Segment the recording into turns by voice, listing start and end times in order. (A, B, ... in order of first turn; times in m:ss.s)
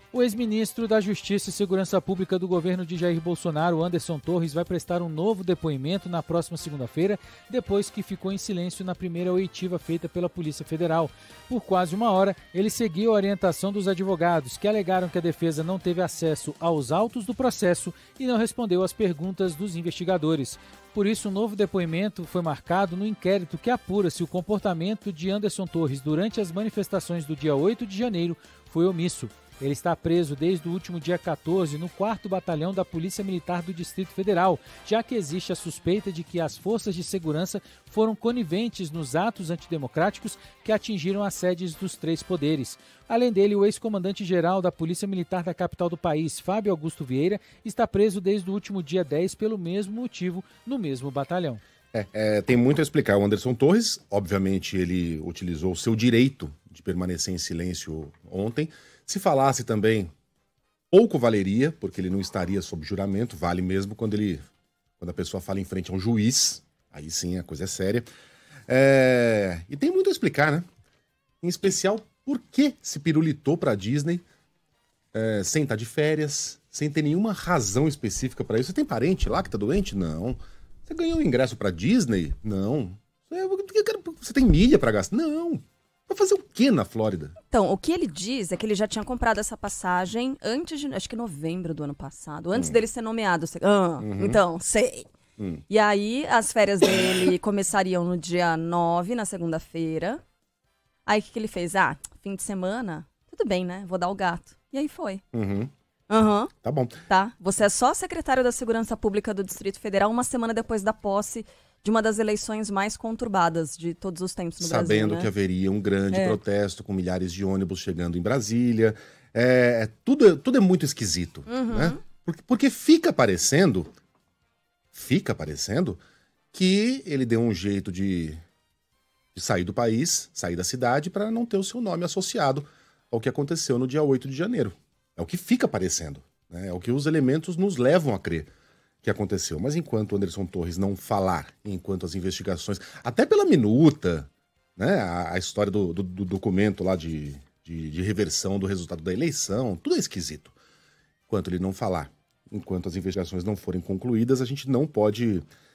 0:00.1-0:51.6 A
0:51.9-1:00.1 B
1:00.9-1:04.4 B
1:05.0-1:08.1 B
1:08.7-1:10.7 B
1:11.4-1:14.2 B
1:15.1-1:27.4 B
1:27.5-1:35.1 C
1:34.0-1:34.4 B
1:35.4-1:35.6 B
1:35.7-1:40.2 C
1:41.1-1:45.2 C
1:45.3-1:45.7 B
1:46.1-1:46.5 C
1:46.6-1:47.0 B
1:47.1-1:55.3 C
1:54.6-2:03.9 B
1:56.1-1:56.4 C
2:01.5-2:02.0 C
2:04.9-2:06.0 B
2:06.5-2:08.4 B
2:09.4-2:18.5 B
2:19.0-2:30.6 B
2:31.3-2:35.4 B